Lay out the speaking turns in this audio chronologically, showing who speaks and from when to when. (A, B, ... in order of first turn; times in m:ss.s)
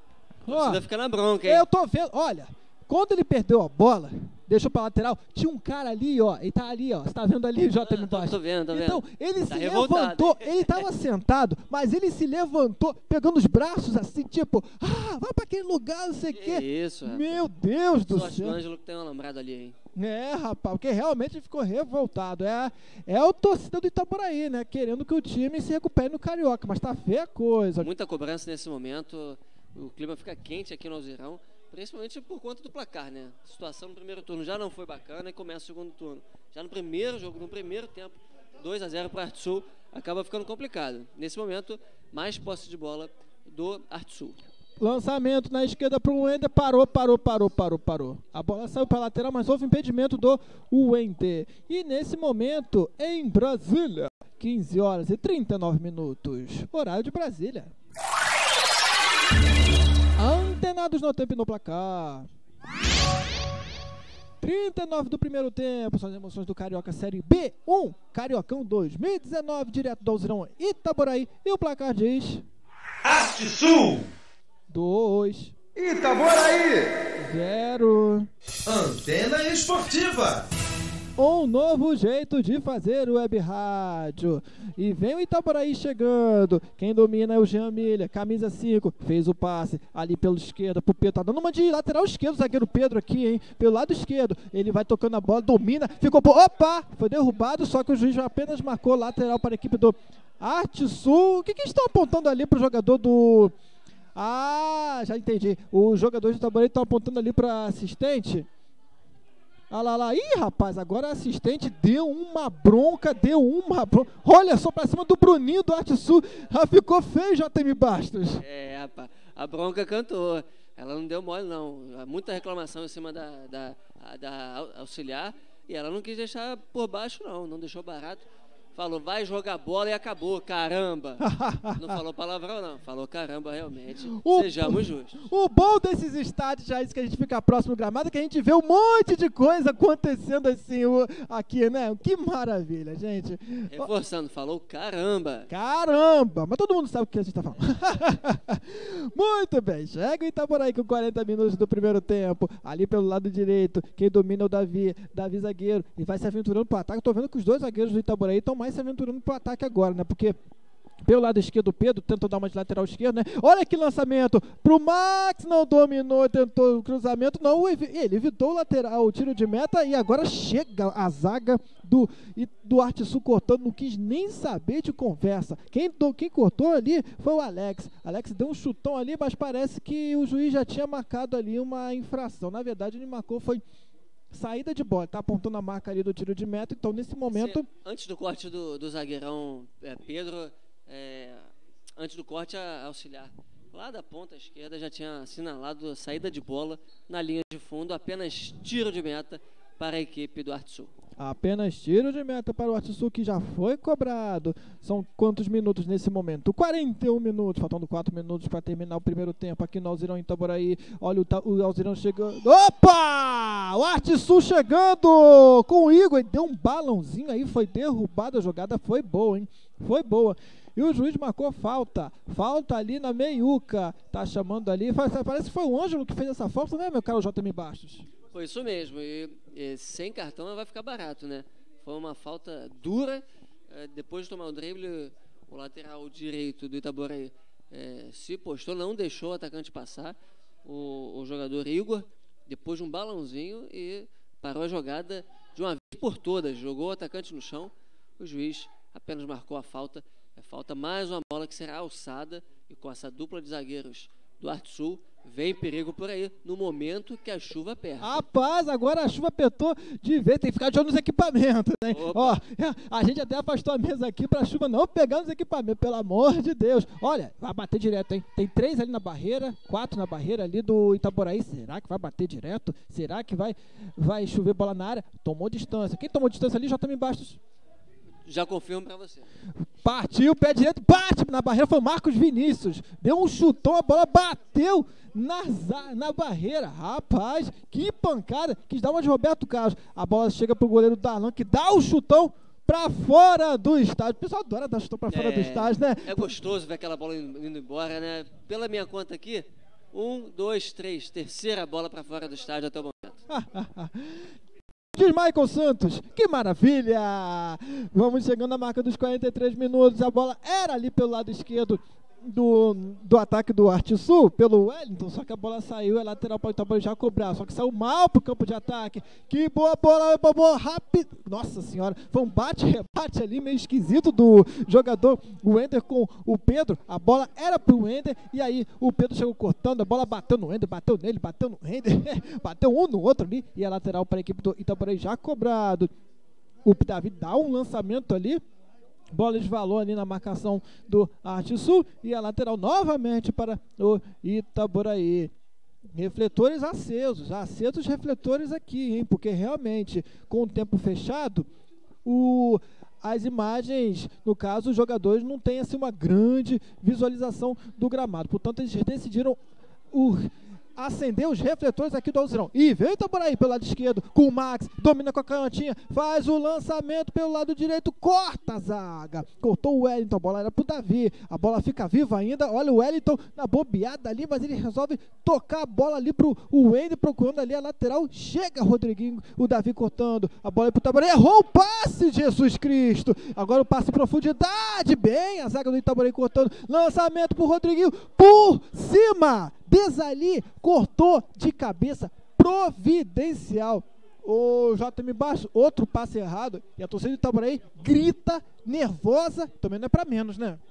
0:00.4-0:00.8 A
0:00.5-0:01.6 B
0:01.4-0:18.6 A
0:07.8-0:10.8 B
0:16.3-0:17.4 B
0:18.1-0:19.8 B
0:20.0-0:27.9 A
0:27.8-0:44.4 B
0:44.8-0:57.7 A
1:00.2-1:02.3 A
1:04.4-1:12.4 A
1:13.0-1:14.1 C
1:14.7-1:15.5 A
1:15.7-1:17.0 C
1:17.2-1:18.3 A
1:18.6-1:20.5 C
1:21.2-1:43.5 A
1:44.2-1:48.5 A
1:49.7-1:58.4 A
1:58.4-2:11.2 B
2:11.2-2:12.0 A
2:11.8-2:15.3 B
2:14.1-2:23.9 A
2:23.7-2:25.5 B
2:25.5-2:40.4 A
2:41.0-3:03.6 A
3:04.3-3:07.7 A
3:07.3-3:20.9 B
3:21.2-3:48.1 A
3:48.3-4:18.1 B
4:18.0-4:37.4 A
4:21.9-4:22.4 B
4:38.2-4:39.3 B
4:39.8-4:56.3 A
4:55.1-5:03.2 B
5:03.3-5:04.3 A
5:04.9-5:35.9 A
5:36.6-5:38.4 A
5:39.1-5:45.3 A
5:45.9-5:51.5 A
5:52.0-5:59.4 A
5:59.9-6:40.6 A